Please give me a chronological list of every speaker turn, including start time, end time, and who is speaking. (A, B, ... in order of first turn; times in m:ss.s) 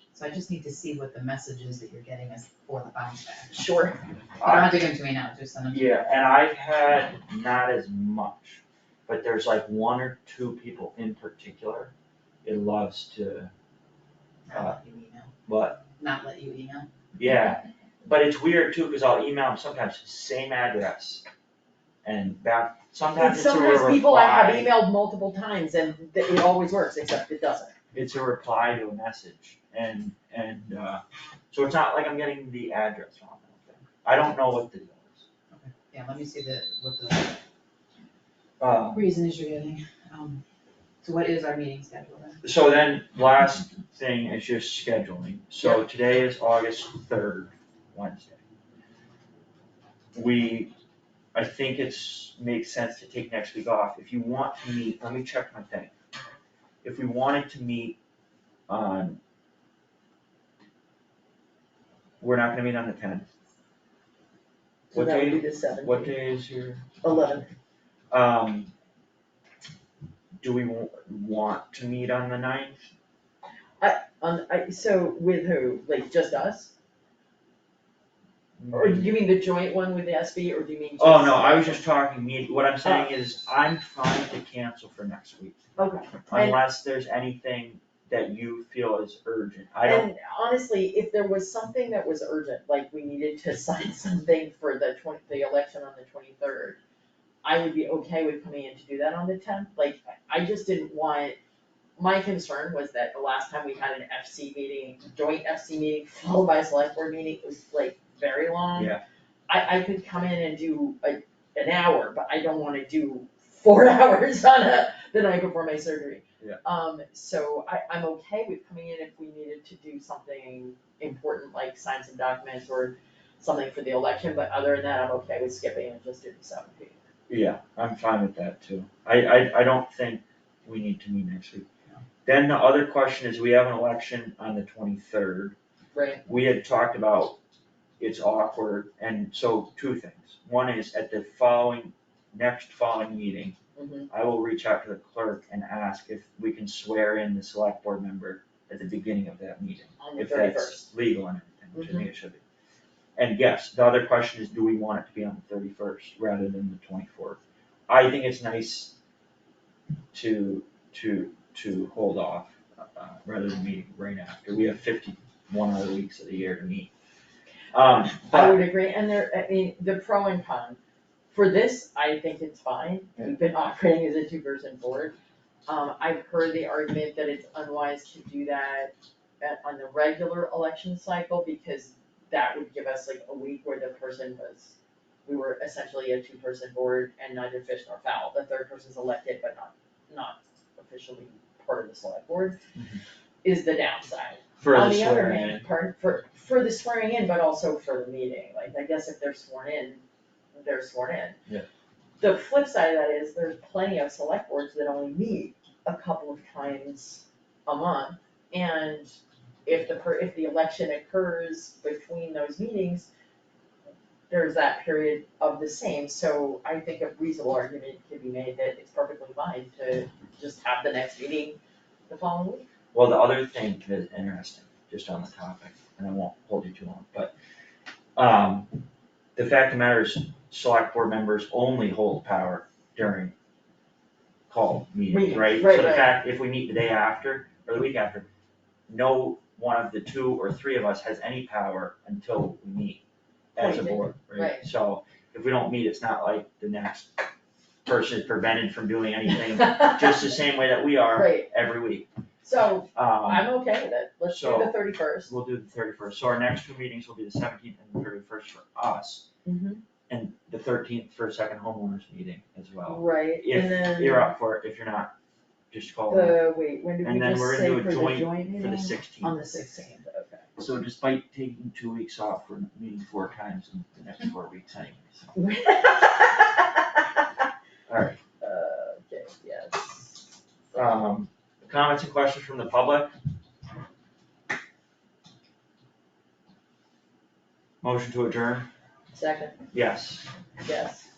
0:00.1-0:03.6 A
0:03.5-0:04.1 B
0:04.4-0:04.8 C
0:04.4-0:06.1 A
0:05.7-0:11.9 C
0:12.4-0:13.5 C
0:14.5-0:15.3 A
0:14.5-0:14.8 C
0:15.5-0:15.8 C
0:15.9-0:16.9 A
0:17.2-0:21.2 C
0:22.0-0:24.8 C
0:23.1-0:27.7 B
0:27.9-0:35.3 C
0:35.5-0:37.4 A
0:38.6-0:39.1 C
0:38.9-0:40.4 A
0:41.0-0:42.4 A
0:42.4-0:48.4 C
0:50.1-0:50.7 C
0:51.3-0:55.9 C
0:56.8-0:58.0 C
0:58.7-0:59.2 C
1:02.2-1:03.3 C
1:04.9-1:06.1 B
1:04.9-1:06.8 C
1:07.0-1:07.5 B
1:08.1-1:08.7 C
1:10.4-1:12.8 C
1:13.8-1:16.7 B
1:18.6-1:19.2 C
1:18.7-1:21.8 B
1:21.0-1:25.6 C
1:25.8-1:26.6 B
1:26.3-1:30.1 C
1:29.8-1:36.8 B
1:37.4-1:41.4 B
1:42.0-1:49.0 B
1:48.8-1:49.0 C
1:49.5-2:07.0 B
2:07.3-2:11.7 C
2:12.2-2:15.6 C
2:15.9-2:16.2 B
2:16.3-2:17.4 C
2:18.0-2:23.6 C
2:23.8-2:24.1 B
2:24.1-2:32.4 C
2:30.0-2:30.9 B
2:31.7-2:32.1 B
2:33.2-2:39.0 C
2:40.1-2:46.9 C
2:47.7-2:48.7 C
2:48.2-2:50.8 B
2:51.3-2:55.1 B
2:55.7-3:04.8 B
3:05.3-3:12.6 B
3:12.8-3:13.0 C
3:13.4-3:20.0 B
3:14.6-3:15.7 C
3:20.6-3:21.4 B
3:22.2-3:29.1 B
3:29.7-3:33.1 B
3:34.3-3:42.7 B
3:42.9-3:47.3 C
3:48.2-3:48.8 C
3:49.4-3:53.3 C
3:54.5-3:58.3 C
3:55.1-3:56.2 B
3:58.9-4:03.0 C
4:03.6-4:07.2 C
4:03.6-4:04.7 B
4:07.9-4:12.1 C
4:11.1-4:11.5 B
4:12.4-4:15.3 B
4:13.0-4:13.5 C
4:14.3-4:19.3 C
4:19.4-4:19.8 B
4:20.1-4:25.1 C
4:22.9-4:24.4 B
4:25.7-4:26.4 C
4:26.1-4:30.5 B
4:27.0-4:29.6 C
4:30.6-4:35.3 C
4:35.3-4:37.0 B
4:37.9-4:38.2 C
4:38.4-4:41.0 B
4:40.8-4:43.2 C
4:47.8-4:48.7 C
4:49.1-4:49.6 B
4:49.7-4:50.3 C
4:50.6-4:51.1 B